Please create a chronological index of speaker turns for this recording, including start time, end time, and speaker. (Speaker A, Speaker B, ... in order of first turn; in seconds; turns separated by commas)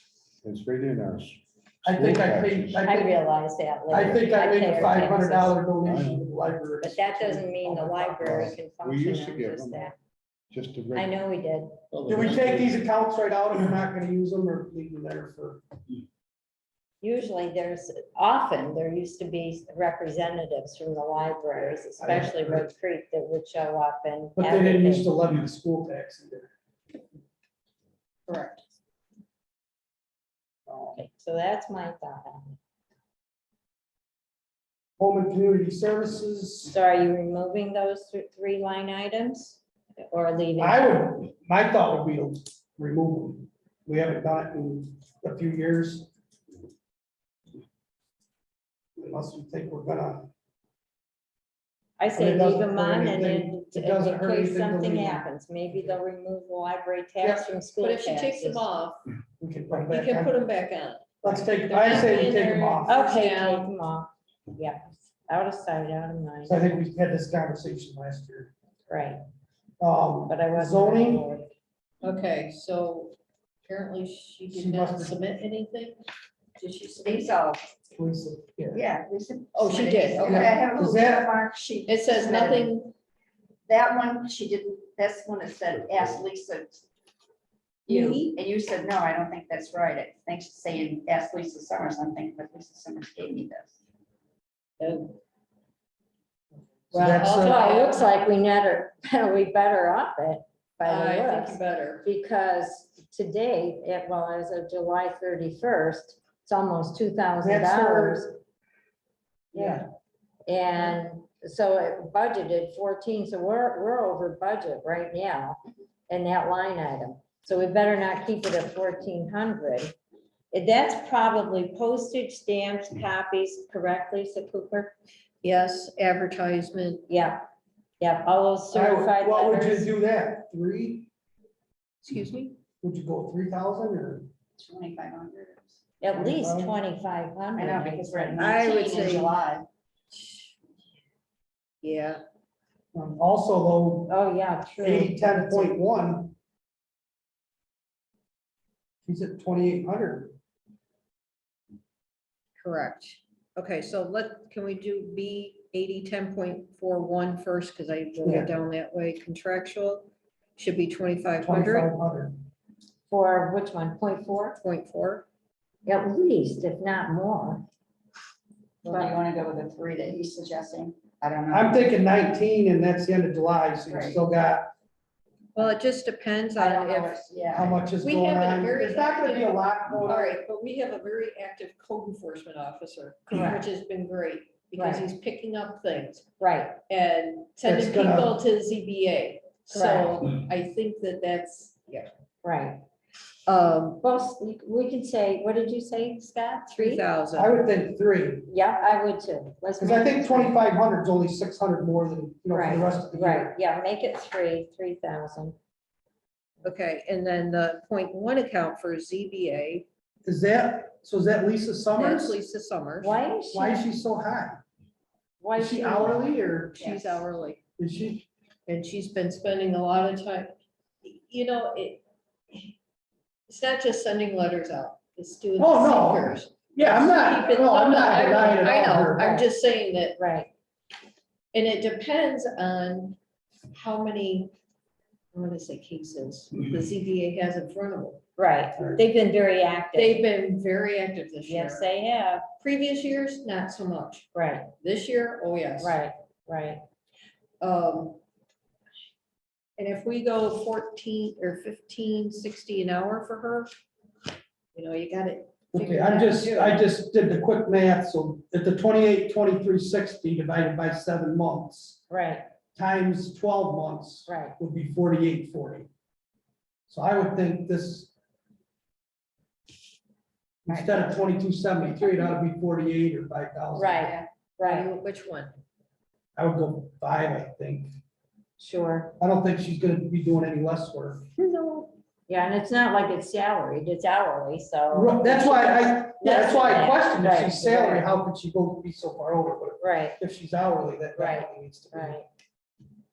Speaker A: 0.4-2.9, Speaker B: 1.9-3.1, Speaker C: 2.8-5.6, Speaker B: 3.9-8.5, Speaker A: 3.9-5.2, Speaker A: 5.7-6.3, Speaker C: 6.8-10.0, Speaker A: 8.2-9.9, Speaker A: 10.5-11.2, Speaker C: 10.9-11.8, Speaker A: 11.9-12.8, Speaker B: 12.1-15.6, Speaker C: 17.0-25.1, Speaker B: 21.5-22.7, Speaker B: 24.4-26.5, Speaker D: 28.3-28.6, Speaker B: 30.7-31.0, Speaker C: 30.9-32.6, Speaker B: 35.0-36.8, Speaker C: 36.6-41.0, Speaker B: 40.6-46.1, Speaker B: 49.0-50.3, Speaker C: 52.0-58.6, Speaker B: 52.1-56.0, Speaker B: 57.2-57.5, Speaker D: 57.8-59.0, Speaker B: 59.4-60.4, Speaker D: 59.7-63.7, Speaker B: 61.2-62.9, Speaker C: 62.9-66.6, Speaker B: 66.5-68.5, Speaker C: 68.9-69.2, Speaker B: 69.8-71.3, Speaker C: 70.3-71.5, Speaker D: 72.0-73.2, Speaker D: 73.7-76.0, Speaker B: 74.5-75.2, Speaker D: 76.6-77.4, Speaker E: 77.0-77.7, Speaker B: 78.0-78.8, Speaker E: 78.7-82.7, Speaker D: 79.5-80.6, Speaker B: 80.2-81.3, Speaker D: 81.9-82.9, Speaker E: 83.7-86.8, Speaker D: 87.9-88.4, Speaker E: 87.9-93.8, Speaker D: 94.8-95.1, Speaker B: 96.9-97.6, Speaker D: 96.9-98.1, Speaker C: 97.2-108.4, Speaker D: 100.8-102.1, Speaker B: 107.4-108.3, Speaker C: 109.5-109.8, Speaker B: 109.5-109.9, Speaker C: 110.5-119.9, Speaker C: 120.5-124.9, Speaker D: 125.4-127.0, Speaker C: 127.1-127.4, Speaker C: 128.0-129.9, Speaker B: 128.7-131.1, Speaker D: 132.0-132.6, Speaker B: 132.8-134.3, Speaker E: 134.6-135.8, Speaker C: 136.0-139.0, Speaker B: 136.1-136.8, Speaker E: 137.6-139.7, Speaker D: 138.4-139.4, Speaker D: 140.1-140.6, Speaker D: 141.8-142.2, Speaker B: 142.9-144.1, Speaker C: 144.1-145.8, Speaker B: 144.8-146.3, Speaker B: 149.1-150.3, Speaker D: 152.6-161.9, Speaker B: 158.2-158.5, Speaker B: 161.4-162.4, Speaker C: 163.1-164.6, Speaker D: 164.6-165.3, Speaker C: 165.9-167.6, Speaker E: 168.8-171.8, Speaker C: 168.9-169.1, Speaker B: 171.5-174.7, Speaker E: 173.9-174.2, Speaker D: 175.6-177.4, Speaker E: 176.6-177.8, Speaker B: 177.5-180.4, Speaker D: 178.0-186.3, Speaker C: 183.3-183.6, Speaker C: 184.8-185.1, Speaker C: 186.4-186.8, Speaker D: 186.9-192.1, Speaker B: 187.6-188.4, Speaker C: 189.7-190.3, Speaker C: 192.4-192.8, Speaker D: 193.5-194.0, Speaker C: 194.0-197.0, Speaker D: 196.7-197.6, Speaker B: 197.3-198.5, Speaker C: 198.5-200.6, Speaker B: 199.8-203.5, Speaker C: 202.5-205.6, Speaker D: 206.6-209.9, Speaker B: 210.2-212.4, Speaker D: 211.9-213.3, Speaker C: 213.0-213.8, Speaker B: 213.5-214.6, Speaker C: 215.4-216.2, Speaker B: 215.6-216.9, Speaker D: 216.8-217.6, Speaker B: 217.8-218.3, Speaker D: 218.7-222.0, Speaker D: 223.5-230.2, Speaker B: 225.6-229.4, Speaker C: 228.2-229.5, Speaker C: 230.2-230.5, Speaker D: 231.5-233.2, Speaker D: 233.7-234.5, Speaker D: 235.3-238.2, Speaker C: 238.4-240.2, Speaker B: 238.8-239.0, Speaker D: 239.9-241.9, Speaker C: 241.5-242.5, Speaker D: 242.6-246.0, Speaker C: 244.3-244.7, Speaker C: 245.8-246.8, Speaker D: 247.6-248.2, Speaker D: 249.8-253.7, Speaker D: 254.7-256.9, Speaker B: 255.7-262.0, Speaker C: 262.1-262.4, Speaker B: 262.8-265.9, Speaker C: 264.3-264.6, Speaker B: 266.9-268.1, Speaker B: 270.7-274.1, Speaker C: 273.8-274.9, Speaker E: 274.0-274.3, Speaker D: 274.6-275.5, Speaker B: 276.4-277.9, Speaker C: 278.6-279.1, Speaker B: 279.2-281.3, Speaker C: 281.4-288.1, Speaker B: 284.9-292.2, Speaker C: 289.8-290.2, Speaker C: 291.2-292.3